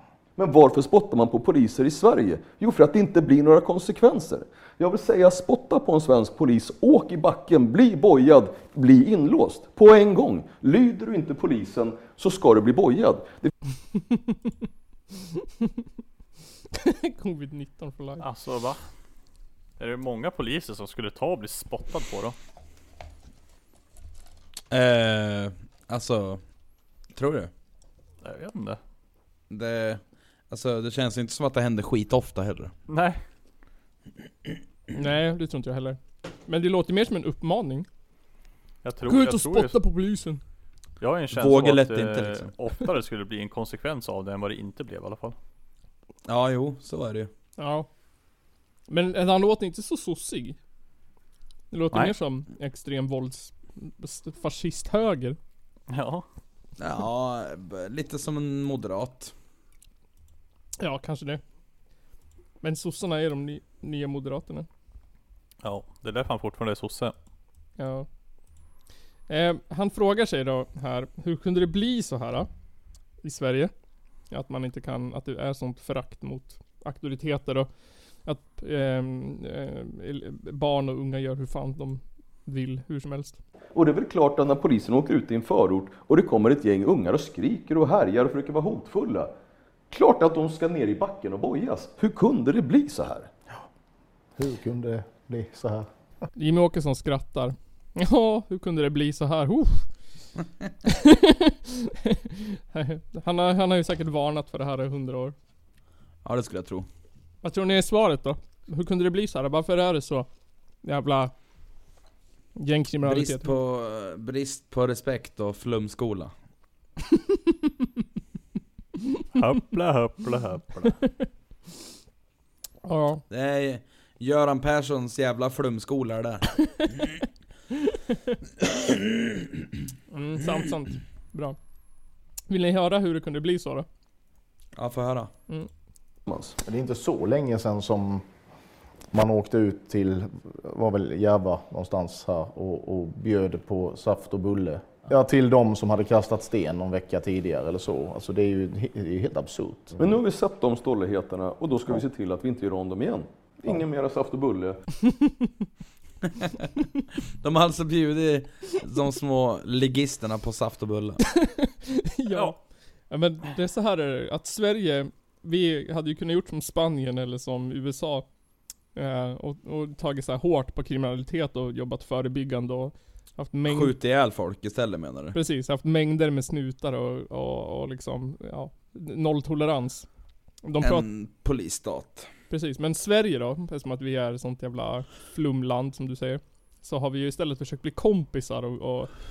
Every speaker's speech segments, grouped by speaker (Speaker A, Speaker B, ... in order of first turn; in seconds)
Speaker A: 0.4-13.5, 83.8-89.3, 89.9-93.3, 136.3-136.6, 150.0-154.8
Speaker B: 16.7-18.3, 34.9-37.9, 39.1-40.4, 47.6-47.9, 48.9-50.6, 51.7-55.4, 60.8-61.4, 62.6-64.7, 67.8-68.1, 69.3-72.5, 73.2-73.7, 74.3-77.7, 78.2-83.4, 96.4-99.9, 100.9-105.4, 107.4-110.3, 110.8-111.3, 112.6-113.5, 122.8-123.2, 130.1-131.6, 132.5-133.9, 161.4-162.6, 163.1-168.3, 168.9-173.9, 175.3-180.1, 180.6-181.1, 182.5-189.1
Speaker C: 18.2-18.8, 19.8-22.4, 28.2-28.8, 32.9-33.2, 38.8-39.8, 41.0-45.4, 55.9-56.2, 65.6-67.1, 119.3-121.0
Speaker D: 24.7-26.4, 27.1-27.5, 29.5-32.7, 41.3-42.5, 46.3-47.3, 56.8-59.3, 106.2-106.9, 113.0-116.3, 123.3-126.5, 134.8-135.3, 157.4-161.2, 173.7-175.4, 180.8-182.3
Speaker E: 94.4-95.9, 136.6-138.3, 139.1-150.0